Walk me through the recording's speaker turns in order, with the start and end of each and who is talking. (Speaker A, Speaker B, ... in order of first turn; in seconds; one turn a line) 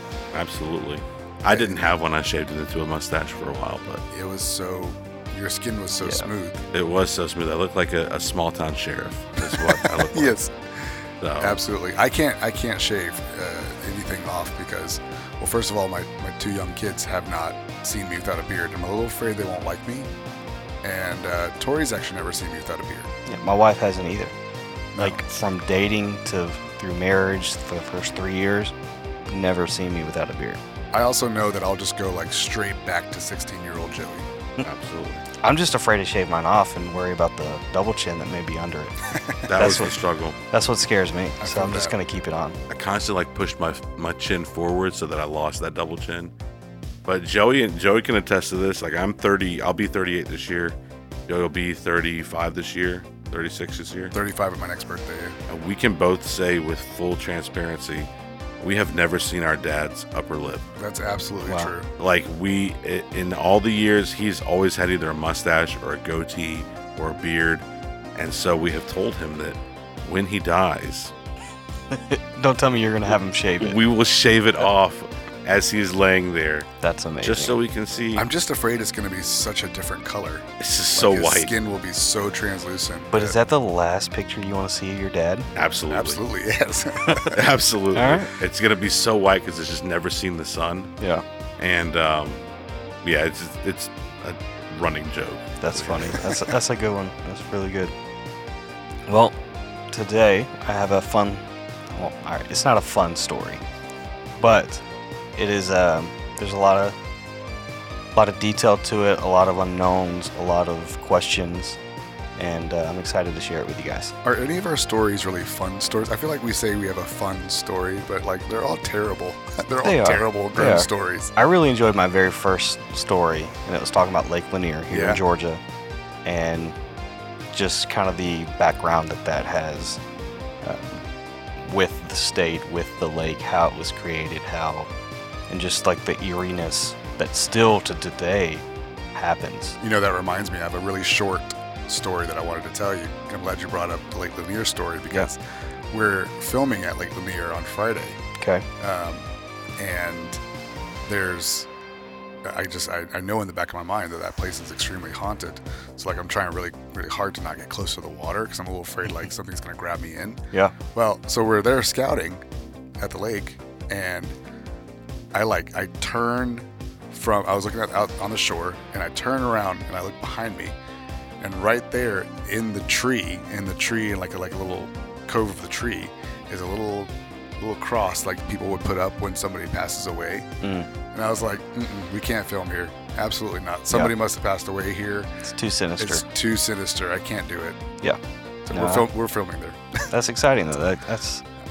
Speaker A: 0.3-4.0
Speaker B: 1.5-1.8
Speaker B: 4.1-6.7
Speaker C: 6.0-6.3
Speaker A: 6.7-10.4
Speaker B: 9.5-20.1
Speaker A: 11.2-11.6
Speaker B: 20.8-23.1
Speaker C: 23.3-24.3
Speaker B: 24.9-25.2
Speaker C: 25.0-28.7
Speaker C: 29.3-30.6
Speaker B: 30.9-34.3
Speaker A: 34.6-35.3
Speaker C: 35.4-39.0
Speaker B: 39.2-39.8
Speaker A: 39.5-40.4
Speaker C: 39.6-40.0
Speaker C: 40.5-42.6
Speaker B: 41.4-42.0
Speaker A: 42.7-46.3
Speaker A: 47.0-50.8
Speaker A: 51.3-54.1
Speaker B: 54.1-55.4
Speaker A: 55.5-58.1
Speaker A: 58.6-60.7
Speaker B: 60.8-61.9
Speaker C: 61.5-61.7
Speaker A: 62.0-67.7
Speaker A: 68.2-71.1
Speaker C: 71.9-73.8
Speaker A: 73.6-78.3
Speaker C: 76.8-77.6
Speaker B: 78.2-83.4
Speaker A: 80.6-81.5
Speaker C: 83.1-85.5
Speaker A: 85.5-86.2
Speaker B: 85.9-87.3
Speaker C: 87.1-87.3
Speaker A: 87.3-90.9
Speaker C: 88.0-88.3
Speaker A: 91.6-92.4
Speaker A: 93.0-96.2
Speaker C: 95.6-98.0
Speaker C: 99.1-99.4
Speaker C: 99.9-103.6
Speaker C: 104.4-107.0
Speaker C: 108.2-111.8
Speaker C: 112.4-114.1
Speaker B: 114.2-121.3
Speaker C: 119.8-125.6
Speaker B: 124.9-125.2
Speaker C: 126.2-126.8
Speaker C: 127.5-130.0
Speaker C: 130.6-131.0
Speaker C: 131.6-134.9
Speaker C: 135.5-139.8
Speaker B: 139.8-148.2
Speaker C: 148.4-148.7
Speaker B: 148.8-150.4
Speaker B: 151.1-151.7
Speaker B: 152.4-162.4
Speaker B: 163.0-164.3
Speaker B: 165.3-170.8
Speaker B: 171.4-180.5
Speaker C: 180.6-180.9
Speaker B: 181.1-185.4
Speaker C: 185.4-186.2
Speaker B: 186.0-187.8
Speaker B: 188.7-190.1
Speaker C: 188.7-189.1
Speaker C: 190.1-191.4